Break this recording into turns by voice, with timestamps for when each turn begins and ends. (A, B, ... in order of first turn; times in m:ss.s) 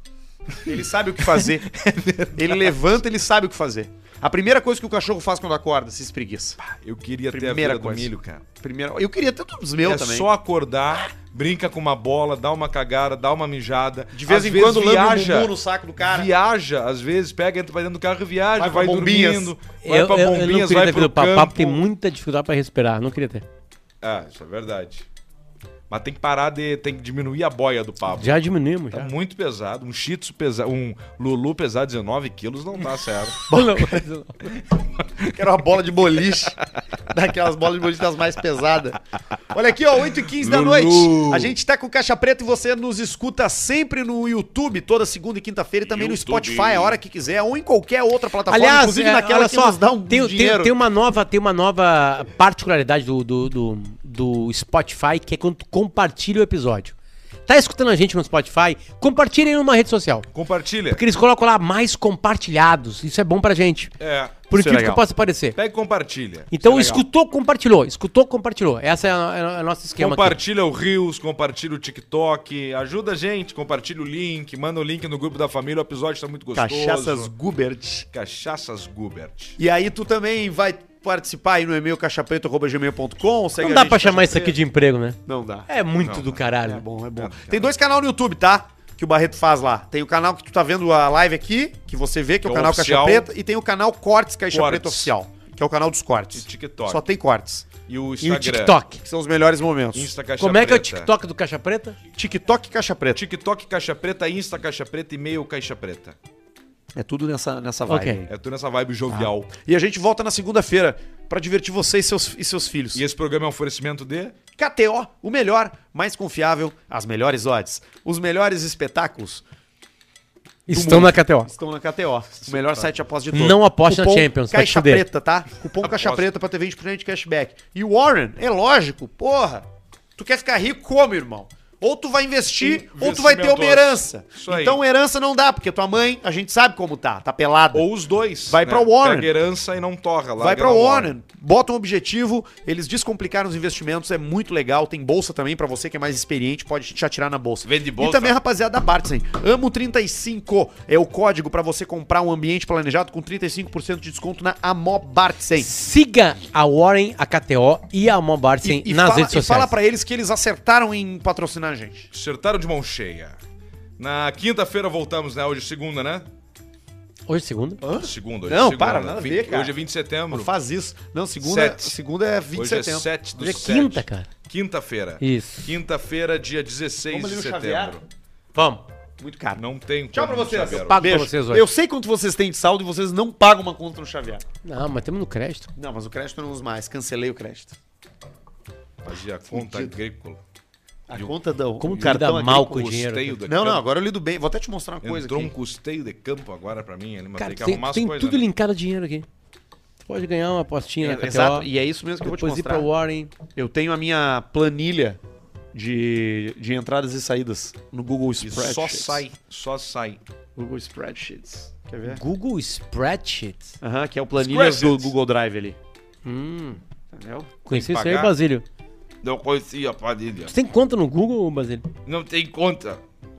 0:00.6-0:01.7 A
0:01.3-0:02.8 B
0:02.4-0:06.6 A
0:06.6-0:08.4 B
0:07.3-0:10.3 A
0:09.8-0:21.8 B
0:14.1-0:16.3 A
0:18.6-0:19.5 A
0:19.8-0:23.4 C
0:24.0-0:25.1 B
0:25.9-0:28.4 B
0:28.1-0:29.1 C
0:28.9-0:33.4 B
0:33.5-0:34.5 C
0:33.5-0:34.0 A
0:34.8-0:35.2 B
0:35.3-0:36.6 A
0:37.1-0:39.0 A
0:39.5-0:50.7 A
0:40.3-0:41.5 B
0:45.9-0:47.0 B
0:48.5-0:56.9 C
0:57.5-1:00.3 C
1:00.3-1:01.0 B
1:00.9-1:03.9 C
1:04.0-1:04.4 B
1:04.5-1:05.6 C
1:04.5-1:05.0 A
1:05.6-1:07.0 B
1:06.5-1:10.4 C
1:10.0-1:17.3 B
1:16.6-1:18.0 A
1:18.1-1:19.6 B
1:19.6-1:24.6 A
1:23.6-1:26.8 C
1:25.3-1:25.7 A
1:26.0-1:26.4 B
1:26.6-1:37.7 A
1:27.2-1:27.7 B
1:32.4-1:33.3 B
1:34.5-1:35.1 B
1:36.3-1:37.0 B
1:37.9-1:38.8 B
1:38.2-1:39.0 C
1:39.0-1:40.1 A
1:40.0-1:41.1 B
1:40.4-1:42.0 C
1:42.2-1:43.2 A
1:43.1-1:46.2 B
1:47.0-1:48.3 A
1:47.9-1:48.2 C
1:48.3-1:49.5 B
1:49.1-1:53.0 A
1:52.9-1:54.4 B
1:54.6-1:59.4 A
2:00.7-2:01.5 C
2:00.7-2:17.9 A
2:02.5-2:02.9 B
2:03.3-2:05.0 C
2:05.8-2:06.3 B
2:12.6-2:14.8 B
2:17.7-2:21.1 B
2:18.5-2:19.3 A
2:20.4-2:35.7 A
2:27.7-2:28.3 B
2:35.6-2:39.7 C
2:38.6-2:42.1 A
2:42.1-2:43.4 B
2:44.0-2:46.3 B
2:47.3-2:47.8 C
2:47.8-2:49.7 A
2:48.0-2:50.5 B
2:50.3-2:53.1 A
2:51.4-2:52.0 B
2:52.5-2:58.0 B
2:53.4-2:54.3 C
2:55.2-2:55.8 C
2:57.1-2:58.0 A
2:58.5-2:58.8 C
2:59.2-2:59.6 A
2:59.6-3:01.3 B
3:00.1-3:04.4 A
3:00.8-3:01.7 C
3:04.6-3:05.7 C
3:05.8-3:07.8 A
3:09.0-3:10.4 B
3:09.5-3:09.9 A
3:11.1-3:12.9 A
3:11.8-3:13.4 C
3:11.9-3:13.8 B
3:13.5-3:15.5 A
3:15.0-3:18.5 B
3:17.4-3:19.3 C
3:20.0-3:21.7 C
3:21.0-3:22.9 A
3:22.2-3:23.3 C
3:23.6-3:25.2 A
3:25.7-3:29.2 A
3:28.4-3:30.2 B
3:30.6-3:32.2 A
3:32.0-3:33.8 C
3:33.8-3:35.8 A
3:34.4-3:35.1 B
3:36.2-3:36.8 C
3:37.1-3:37.5 A
3:37.7-3:38.6 C
3:37.7-3:38.3 B
3:39.2-3:40.5 B
3:40.5-3:41.9 C
3:42.0-3:43.0 B